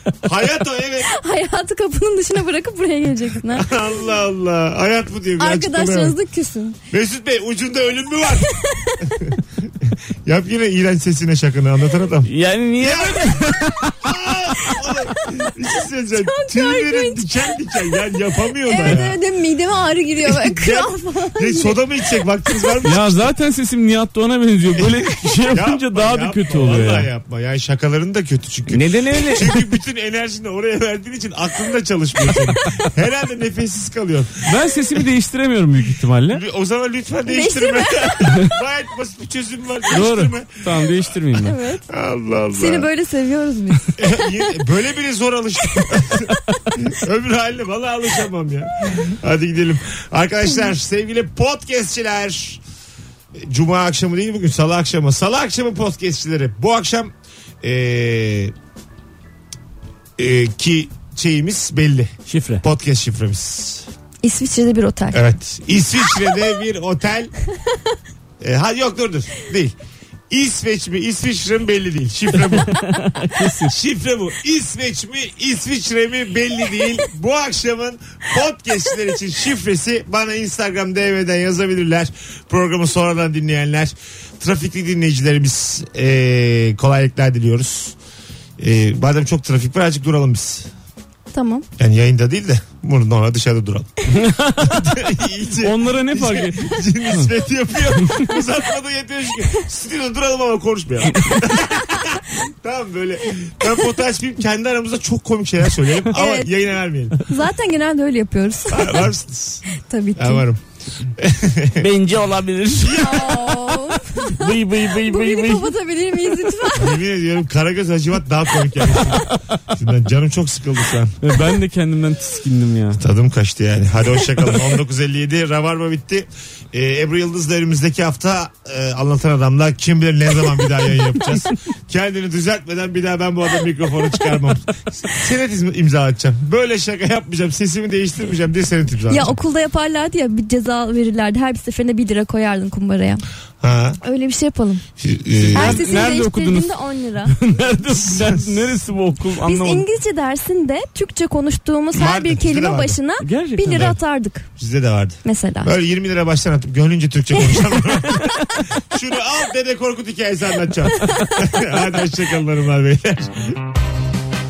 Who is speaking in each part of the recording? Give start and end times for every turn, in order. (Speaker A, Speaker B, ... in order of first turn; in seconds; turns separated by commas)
Speaker A: 0.2-1.1, Speaker B: 1.0-3.7, Speaker A: 3.5-6.2, Speaker B: 5.4-6.8, Speaker A: 6.9-19.1, Speaker B: 8.7-9.1, Speaker C: 12.2-14.9, Speaker B: 16.1-17.2, Speaker B: 18.6-21.8, Speaker A: 20.2-23.3, Speaker C: 22.8-27.1, Speaker A: 24.8-34.5, Speaker C: 28.7-29.7, Speaker C: 32.4-32.8, Speaker C: 34.5-36.4, Speaker A: 36.3-41.0, Speaker B: 37.3-38.3, Speaker C: 39.9-41.5, Speaker B: 41.4-41.9, Speaker A: 41.9-42.9, Speaker B: 42.5-44.2, Speaker A: 44.0-52.6, Speaker A: 53.3-58.5, Speaker A: 60.2-63.9, Speaker C: 62.3-62.6, Speaker B: 64.2-65.2, Speaker A: 65.1-67.3, Speaker A: 68.4-69.7, Speaker A: 70.3-72.8, Speaker C: 72.7-73.7, Speaker A: 73.6-88.0, Speaker A: 88.6-90.7, Speaker B: 91.3-91.7, Speaker A: 91.8-107.2, Speaker C: 94.1-97.3, Speaker C: 98.0-98.3, Speaker C: 101.1-101.5, Speaker B: 106.1-106.5, Speaker B: 107.3-109.1, Speaker A: 108.7-111.9, Speaker B: 109.7-110.5, Speaker C: 111.8-113.3, Speaker A: 112.8-113.8, Speaker B: 112.8-117.0, Speaker C: 114.0-115.7, Speaker A: 116.7-121.2, Speaker C: 118.9-119.4, Speaker C: 121.2-123.0, Speaker A: 123.0-139.4, Speaker B: 139.1-143.2, Speaker A: 143.6-144.0, Speaker B: 144.0-144.8, Speaker A: 145.0-146.0, Speaker C: 145.4-146.7, Speaker B: 145.5-147.3, Speaker C: 147.3-149.8, Speaker A: 147.9-148.6, Speaker B: 149.4-154.4, Speaker A: 151.9-153.0, Speaker C: 153.2-153.9, Speaker A: 154.6-163.6, Speaker B: 155.2-155.7